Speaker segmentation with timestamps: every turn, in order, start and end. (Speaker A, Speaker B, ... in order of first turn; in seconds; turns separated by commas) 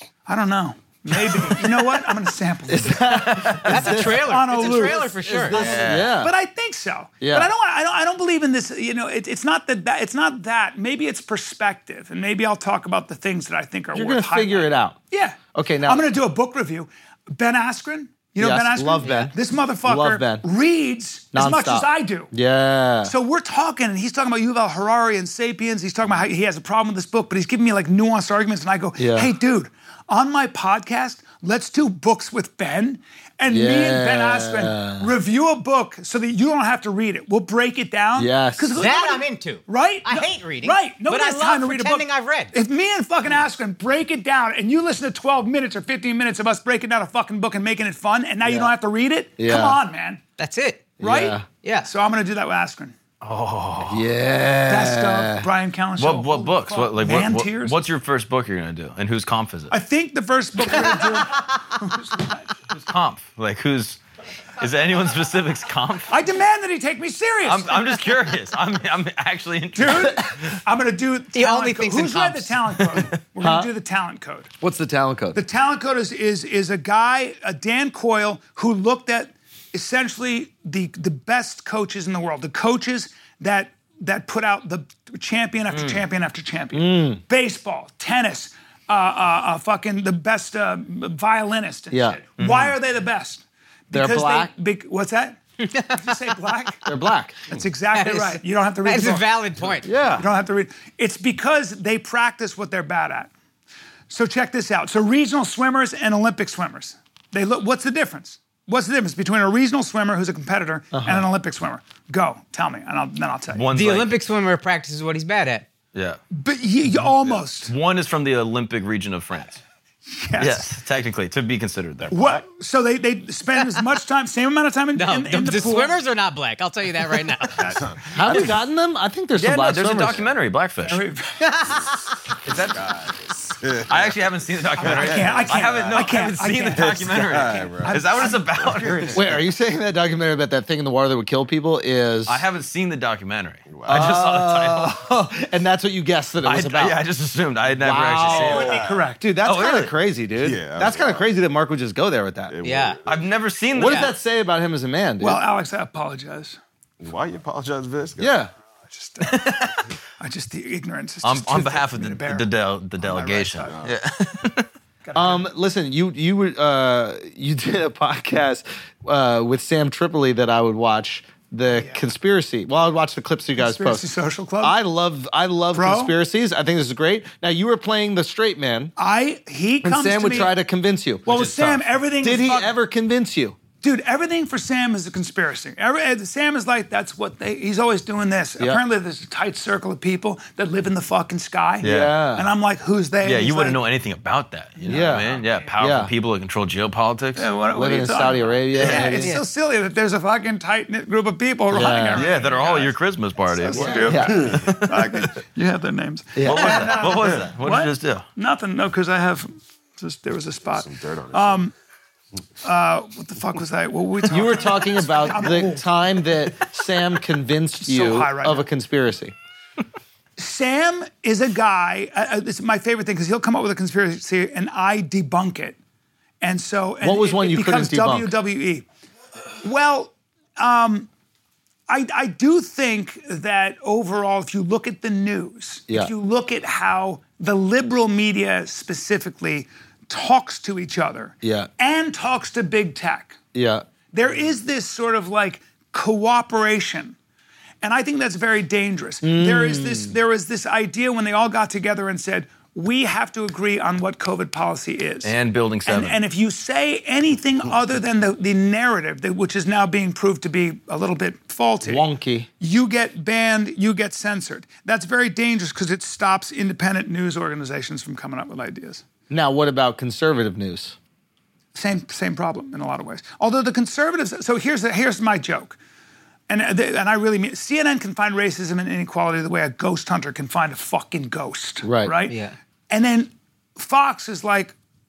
Speaker A: 0.3-22.3, Speaker B: 2.7-6.3, Speaker C: 3.6-5.9, Speaker D: 5.5-6.1, Speaker B: 7.2-7.5, Speaker B: 13.9-15.0, Speaker B: 15.5-16.1, Speaker B: 18.4-20.4, Speaker C: 19.0-19.3, Speaker B: 21.3-23.1, Speaker A: 23.0-50.2, Speaker B: 29.0-29.3, Speaker B: 33.5-35.1, Speaker B: 38.2-38.9, Speaker C: 38.8-42.5, Speaker B: 48.4-48.7, Speaker B: 49.4-49.8, Speaker C: 50.4-50.9, Speaker B: 51.0-51.5, Speaker A: 51.0-52.9, Speaker C: 51.6-51.9, Speaker D: 53.2-54.1, Speaker B: 53.9-55.5, Speaker A: 54.7-57.8, Speaker D: 56.0-59.8, Speaker A: 59.7-62.5, Speaker D: 62.7-64.0, Speaker D: 64.6-66.1, Speaker A: 66.1-68.2, Speaker D: 67.5-70.4, Speaker A: 69.8-74.5, Speaker C: 71.3-72.6, Speaker B: 73.4-73.7, Speaker B: 74.6-75.4, Speaker A: 75.3-96.9, Speaker D: 85.7-86.0, Speaker B: 86.7-87.2, Speaker B: 91.9-92.2, Speaker D: 92.4-92.8, Speaker B: 93.9-94.5, Speaker C: 95.6-96.0, Speaker B: 96.9-97.5, Speaker A: 97.5-99.3, Speaker C: 97.9-99.9, Speaker B: 99.8-100.3, Speaker A: 100.1-103.3, Speaker A: 104.1-113.7, Speaker B: 110.9-111.3, Speaker D: 113.5-114.2, Speaker C: 113.7-115.7, Speaker D: 115.9-116.2, Speaker A: 116.3-117.7, Speaker D: 117.0-119.6, Speaker A: 120.1-120.7, Speaker D: 120.4-122.4, Speaker A: 122.1-126.0, Speaker C: 125.0-127.8, Speaker A: 127.6-127.8, Speaker E: 127.8-128.1, Speaker B: 128.1-130.3, Speaker D: 129.4-131.1, Speaker A: 130.8-131.6, Speaker C: 131.4-131.9, Speaker D: 132.4-133.1, Speaker E: 132.5-136.2, Speaker D: 133.9-139.2, Speaker A: 134.8-139.2, Speaker E: 137.2-139.1, Speaker B: 139.1-142.4, Speaker D: 142.3-145.0, Speaker E: 143.7-144.2, Speaker B: 143.9-147.0, Speaker D: 146.4-148.9, Speaker B: 147.8-152.5, Speaker A: 148.2-149.2, Speaker E: 148.6-149.1, Speaker D: 149.4-149.9, Speaker E: 150.4-151.2, Speaker E: 152.5-153.2, Speaker C: 152.6-153.0, Speaker D: 153.1-154.2, Speaker B: 153.7-155.4, Speaker A: 155.2-156.6, Speaker E: 157.0-158.3, Speaker B: 158.2-158.5, Speaker A: 158.9-162.5, Speaker D: 159.2-159.8, Speaker D: 161.2-164.7, Speaker A: 163.0-163.8, Speaker A: 165.0-165.5, Speaker B: 165.1-174.1, Speaker A: 171.8-172.0, Speaker A: 173.6-174.8, Speaker B: 174.6-178.9, Speaker A: 175.7-176.1, Speaker A: 179.0-180.5, Speaker B: 179.8-181.4, Speaker A: 181.3-182.7, Speaker D: 181.3-181.9, Speaker B: 182.2-183.6, Speaker A: 183.8-193.8, Speaker D: 191.8-192.2, Speaker B: 191.8-192.5, Speaker D: 193.2-197.5, Speaker A: 194.8-195.7, Speaker B: 194.9-196.1, Speaker A: 197.4-211.7, Speaker B: 197.7-199.4, Speaker C: 198.9-199.4, Speaker B: 201.7-202.3, Speaker D: 202.1-205.3, Speaker B: 203.7-204.6, Speaker E: 204.4-204.6, Speaker B: 206.4-207.0, Speaker D: 206.4-208.3, Speaker E: 210.7-211.6, Speaker A: 212.6-215.9, Speaker B: 214.3-219.3, Speaker A: 217.8-218.7, Speaker A: 220.4-225.8, Speaker A: 226.4-228.9, Speaker B: 227.0-228.4, Speaker A: 229.6-231.1, Speaker A: 231.9-243.4, Speaker B: 241.4-241.7, Speaker B: 243.6-243.9, Speaker A: 244.1-247.2, Speaker A: 247.8-255.3, Speaker B: 249.2-250.2, Speaker D: 255.2-256.2, Speaker A: 255.9-262.0, Speaker B: 261.8-262.5, Speaker A: 262.6-269.0, Speaker B: 269.3-271.0, Speaker A: 271.8-275.8, Speaker A: 276.5-282.4, Speaker B: 281.8-282.2, Speaker C: 282.3-282.6, Speaker A: 282.9-284.8